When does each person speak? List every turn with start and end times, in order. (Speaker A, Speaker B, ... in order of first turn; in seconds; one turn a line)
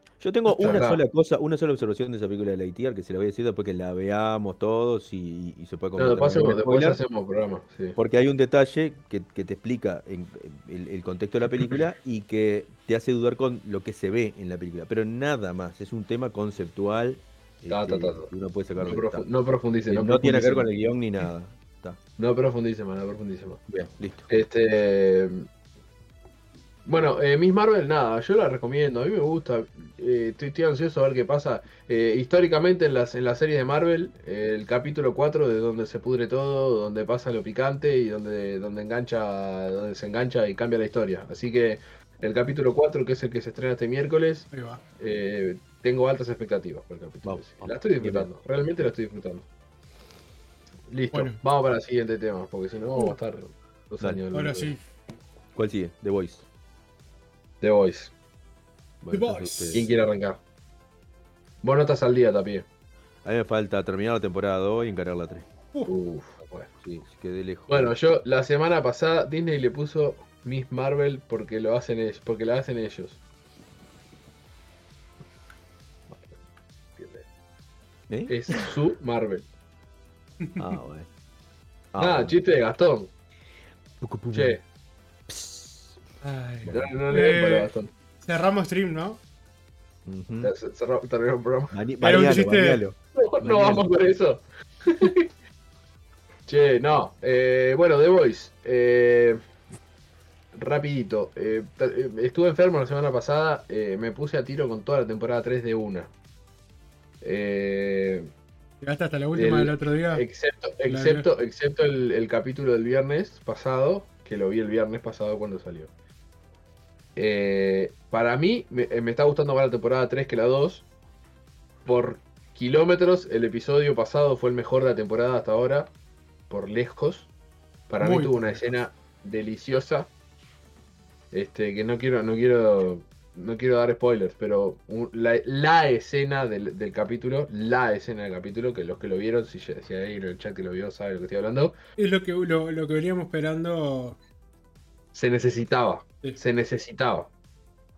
Speaker A: 0.2-7.0
Speaker B: 0.5-1.0
Speaker B: 6.0-8.0
Speaker A: 8.0-19.2
Speaker B: 17.7-20.7
Speaker A: 19.9-22.0
Speaker B: 22.2-23.6
Speaker A: 23.7-24.3
Speaker B: 24.3-25.5
Speaker B: 26.9-49.5
Speaker C: 44.5-44.8
Speaker A: 47.2-48.3
Speaker B: 50.9-54.7
Speaker C: 51.1-51.4
Speaker C: 54.3-54.8
Speaker A: 55.5-56.4
Speaker B: 57.6-58.1
Speaker A: 59.0-59.9
Speaker C: 59.1-59.9
Speaker B: 59.7-60.4
Speaker B: 61.6-62.6
Speaker A: 63.2-65.5
Speaker B: 65.9-66.7
Speaker A: 66.8-67.9
Speaker B: 67.7-73.2
Speaker B: 77.0-77.2
Speaker A: 78.1-78.7
Speaker B: 78.3-79.4
Speaker C: 80.4-80.7
Speaker A: 80.6-81.1
Speaker A: 81.9-82.3
Speaker B: 82.0-83.1
Speaker A: 84.0-84.6
Speaker B: 84.3-84.6
Speaker A: 85.3-86.0
Speaker C: 86.2-87.7
Speaker A: 86.6-86.9
Speaker B: 86.7-87.9
Speaker C: 88.2-89.2
Speaker A: 90.0-90.5
Speaker B: 90.4-91.8
Speaker A: 91.7-93.9
Speaker C: 92.0-92.8
Speaker B: 93.2-95.3
Speaker B: 96.5-99.4
Speaker B: 100.5-106.1
Speaker B: 107.2-108.3
Speaker C: 108.8-110.2
Speaker B: 109.3-115.9
Speaker C: 110.9-111.3
Speaker B: 117.2-120.9
Speaker B: 121.8-125.9
Speaker B: 126.5-127.3
Speaker B: 127.9-130.1
Speaker C: 128.0-128.6
Speaker B: 131.3-141.7
Speaker C: 142.0-144.2
Speaker B: 145.1-147.3